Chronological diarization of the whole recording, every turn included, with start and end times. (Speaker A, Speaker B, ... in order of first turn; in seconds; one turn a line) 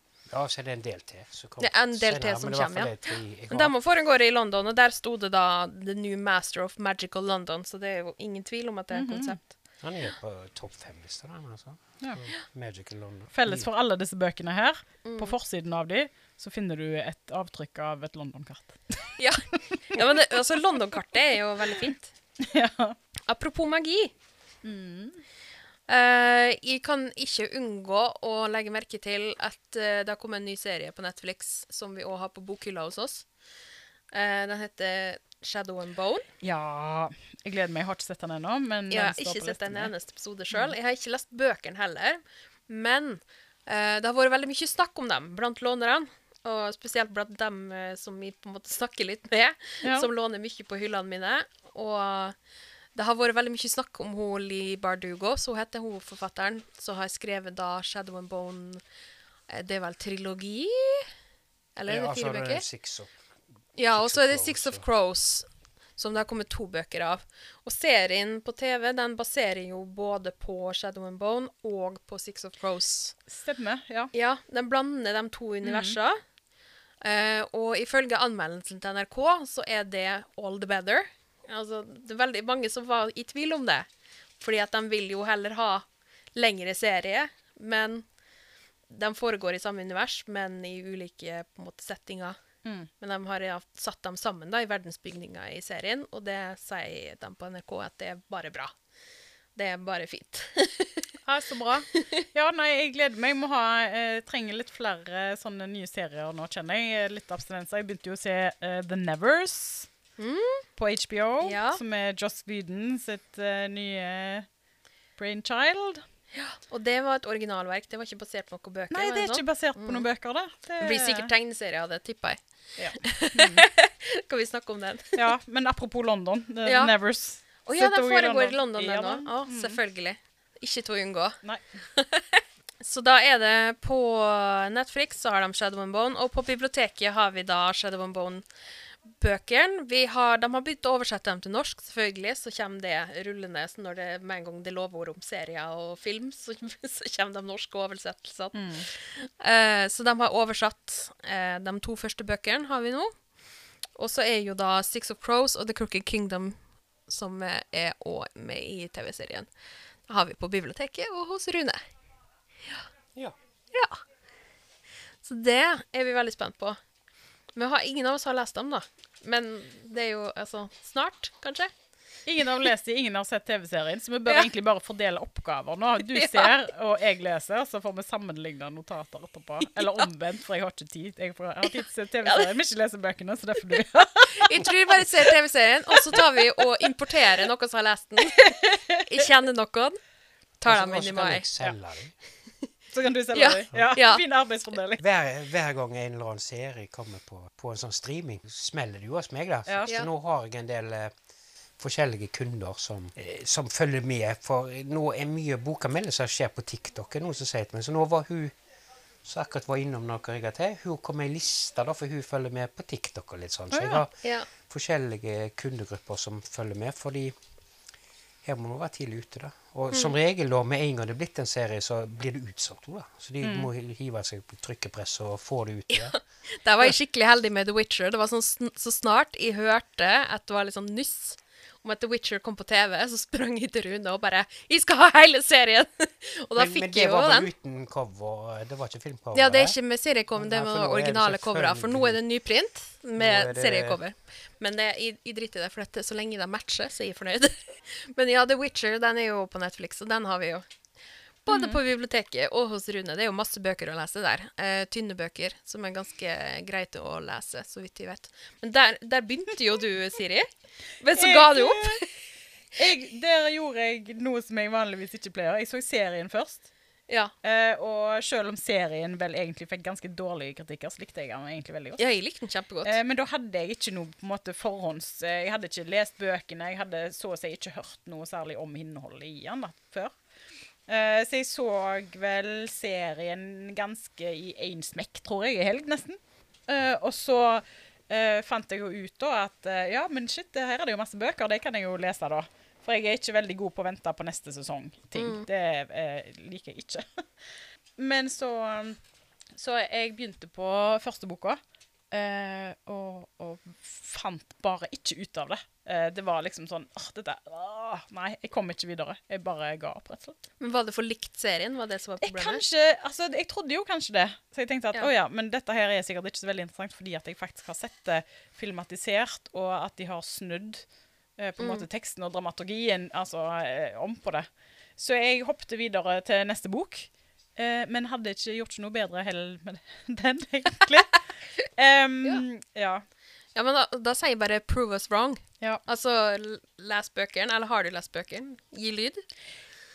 Speaker A: 0.3-3.7
Speaker B: 1.6-9.4
Speaker C: 8.9-9.4
Speaker A: 9.8-13.7
Speaker C: 13.3-19.2
Speaker B: 15.0-15.3
Speaker B: 19.2-22.1
Speaker C: 22.4-23.0
Speaker B: 23.3-24.1
Speaker C: 24.6-25.2
Speaker B: 25.9-33.3
Speaker B: 34.1-36.3
Speaker C: 36.4-39.9
Speaker B: 38.9-52.4
Speaker C: 49.8-50.1
Speaker B: 53.0-58.8
Speaker B: 59.5-61.1
Speaker B: 61.8-62.6
Speaker A: 61.9-63.1
Speaker B: 63.8-73.2
Speaker A: 63.9-64.8
Speaker C: 73.3-74.1
Speaker B: 74.1-76.2
Speaker C: 75.6-76.0
Speaker B: 77.0-83.9
Speaker B: 84.4-88.1
Speaker B: 88.9-92.4
Speaker C: 92.7-92.9
Speaker B: 93.0-98.7
Speaker B: 99.6-101.1
Speaker C: 101.2-109.9
Speaker B: 110.2-110.7
Speaker C: 110.8-114.5
Speaker B: 111.4-111.8
Speaker C: 115.2-116.0
Speaker B: 116.4-120.1
Speaker C: 118.9-121.3
Speaker B: 120.8-122.4
Speaker C: 122.8-123.7
Speaker B: 122.9-125.2
Speaker C: 125.2-129.8
Speaker B: 126.7-126.9
Speaker B: 127.6-131.4
Speaker B: 131.9-138.5
Speaker B: 139.1-153.1
Speaker C: 148.5-148.9
Speaker B: 154.0-159.5
Speaker B: 160.1-161.8
Speaker B: 163.7-164.0
Speaker B: 165.2-166.8
Speaker B: 167.6-171.7
Speaker C: 172.3-184.6
Speaker B: 176.1-176.5
Speaker B: 184.3-188.5
Speaker C: 188.3-189.0
Speaker B: 189.1-190.0
Speaker B: 190.6-191.5
Speaker A: 190.7-192.1
Speaker C: 192.9-195.0
Speaker B: 193.3-194.2
Speaker A: 195.0-201.1
Speaker A: 201.8-208.5
Speaker A: 209.2-217.3
Speaker C: 213.7-214.1
Speaker B: 214.2-214.5
Speaker A: 218.4-226.2
Speaker C: 223.4-223.7
Speaker B: 225.9-237.5
Speaker A: 236.6-239.8
Speaker B: 239.3-250.7
Speaker A: 240.4-242.2
Speaker A: 243.2-244.0
Speaker B: 251.4-262.1
Speaker C: 251.5-251.8
Speaker C: 261.1-262.0
Speaker C: 262.7-266.7
Speaker C: 267.4-272.0
Speaker B: 272.0-272.9
Speaker C: 272.8-280.1
Speaker C: 280.9-299.0
Speaker B: 295.1-295.5
Speaker C: 299.5-301.6
Speaker C: 302.1-310.4
Speaker B: 310.6-312.6
Speaker C: 312.2-333.0
Speaker B: 321.6-321.9
Speaker B: 333.6-339.2